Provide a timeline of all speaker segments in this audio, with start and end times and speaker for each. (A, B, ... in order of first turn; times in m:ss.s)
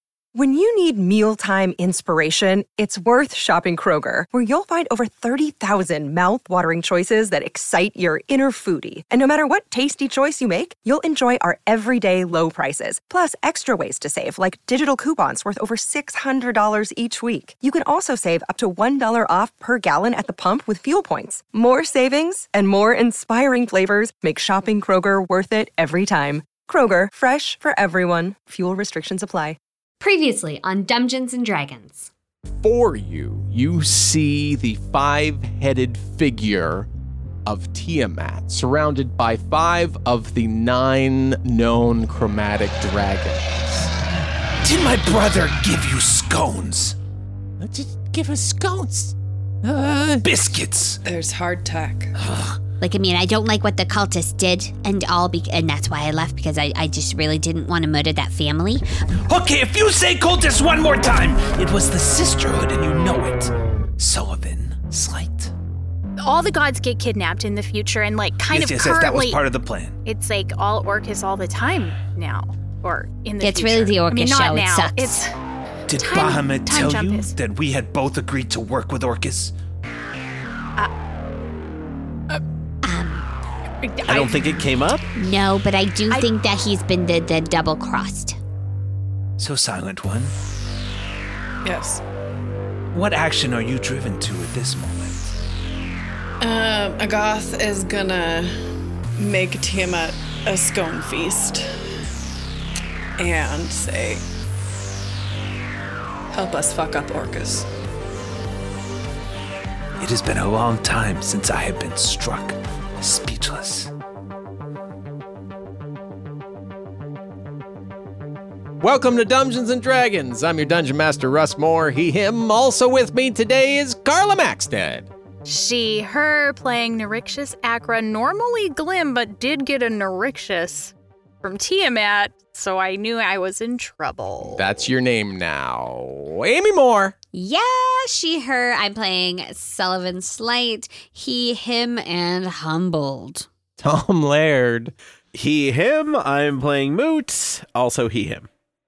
0:00.3-0:29.6 A
0:30.0-0:32.1 B
0:32.6-0:36.9 C
0:37.4-0:43.9 C
0:44.6-0:47.0 D
0:47.6-0:50.2 E
0:50.2-0:51.0 D
0:51.0-0:52.1 F
0:52.3-0:58.8 B
0:59.3-1:05.5 D
1:06.2-1:09.4 G
1:08.5-1:10.0 D
1:10.0-1:15.3 G
1:13.4-1:15.2 B
1:15.9-1:19.5 D
1:15.9-1:17.3 G
1:22.8-1:23.2 B
1:23.8-1:24.4 G
1:24.1-1:25.1 H
1:25.1-1:28.4 B
1:29.4-1:30.3 D
1:31.6-1:32.0 F
1:32.9-1:35.2 D
1:36.4-1:38.5 F
1:39.2-1:41.7 F
1:43.2-1:44.2 F
1:46.3-1:47.7 F
1:50.0-1:53.9 D
1:58.8-2:05.1 C
2:05.5-2:14.8 G
2:14.4-2:17.2 C
2:17.3-2:23.5 B
2:23.8-2:24.9 C
2:25.3-2:28.5 H